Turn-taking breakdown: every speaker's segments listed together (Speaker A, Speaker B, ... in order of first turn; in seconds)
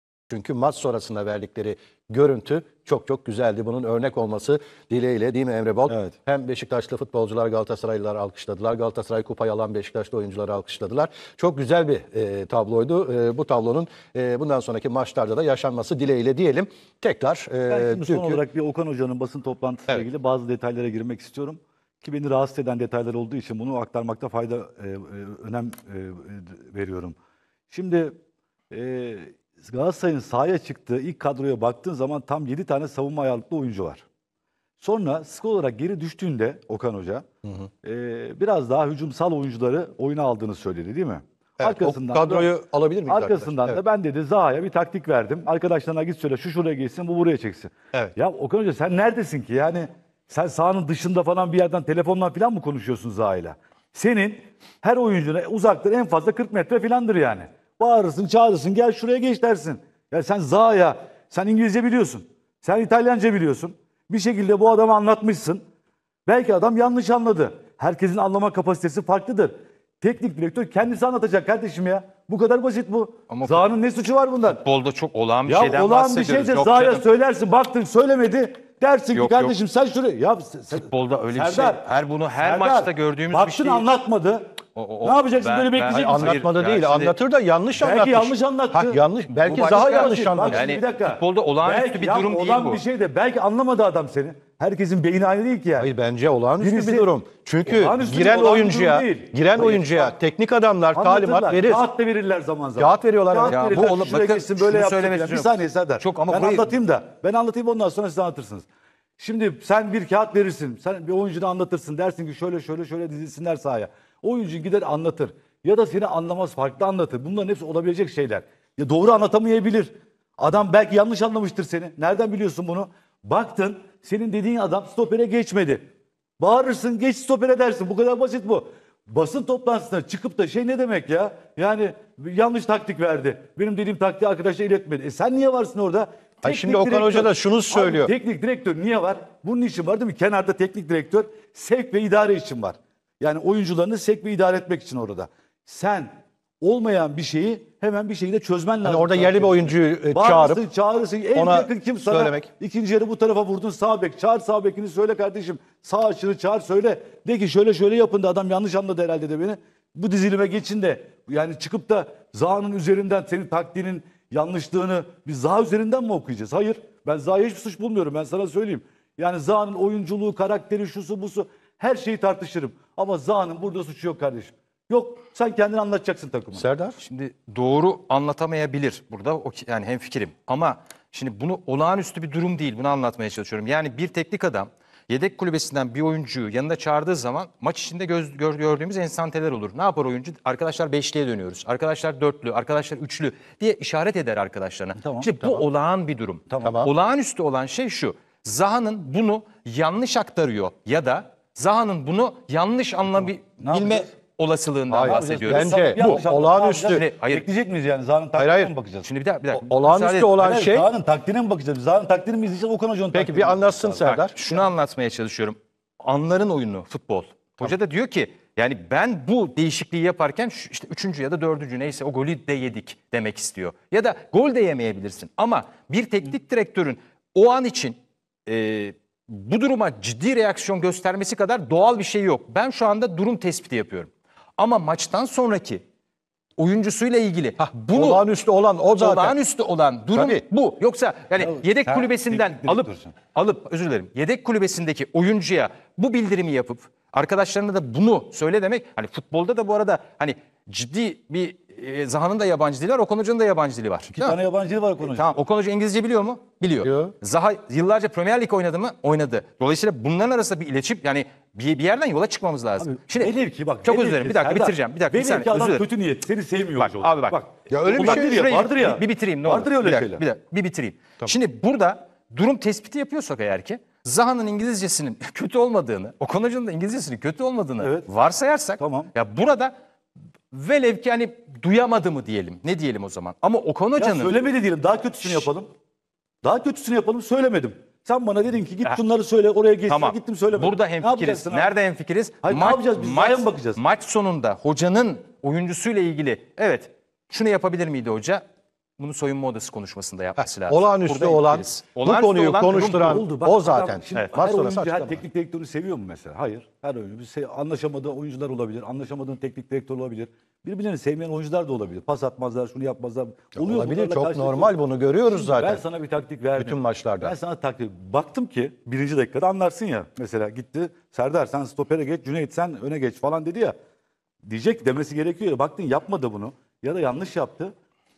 Speaker A: 0.3-18.4, 37.4-37.7, 41.6-43.8, 85.9-90.7, 95.8-101.8, 102.8-103.7, 136.4-138.1, 148.8-150.6, 151.3-152.5, 176.5-177.0, 196.6-196.9, 204.9-207.0, 208.4-208.7, 209.5-210.9, 213.1-214.3, 237.7-239.3, 240.1-240.4, 256.8-257.1, 267.7-268.3, 300.4-305.2, 313.6-315.8, 316.6-317.4
Speaker B: 5.9-6.1, 17.7-27.1, 27.7-28.1, 28.7-34.0, 34.8-37.2, 37.8-42.5, 43.1-65.6, 66.2-74.6, 75.5-81.9, 82.4-86.4, 87.8-95.9, 96.6-97.1, 97.6-100.1, 100.9-108.7, 109.2-125.8, 126.4-176.7, 195.0-195.5, 196.5-196.7, 203.2-204.1, 205.0-209.1, 210.4-214.1, 241.4-243.1, 254.1-255.3, 262.8-270.2, 277.8-278.1, 278.8-279.1, 284.0-285.7, 286.4-291.7, 292.4-293.8, 302.7-314.7, 315.3-323.8, 324.4-327.7
Speaker C: 73.3-73.6, 74.5-77.0, 79.1-79.5, 80.7-83.9, 84.7-87.1, 89.4-92.8, 103.5-106.7, 177.0-206.2, 206.9-207.4, 209.0-210.3, 214.0-235.8, 236.6-238.2, 239.0-254.4, 255.0-265.8, 266.8-267.4, 267.9-279.7, 280.5-284.4, 289.9-298.4, 299.0-303.2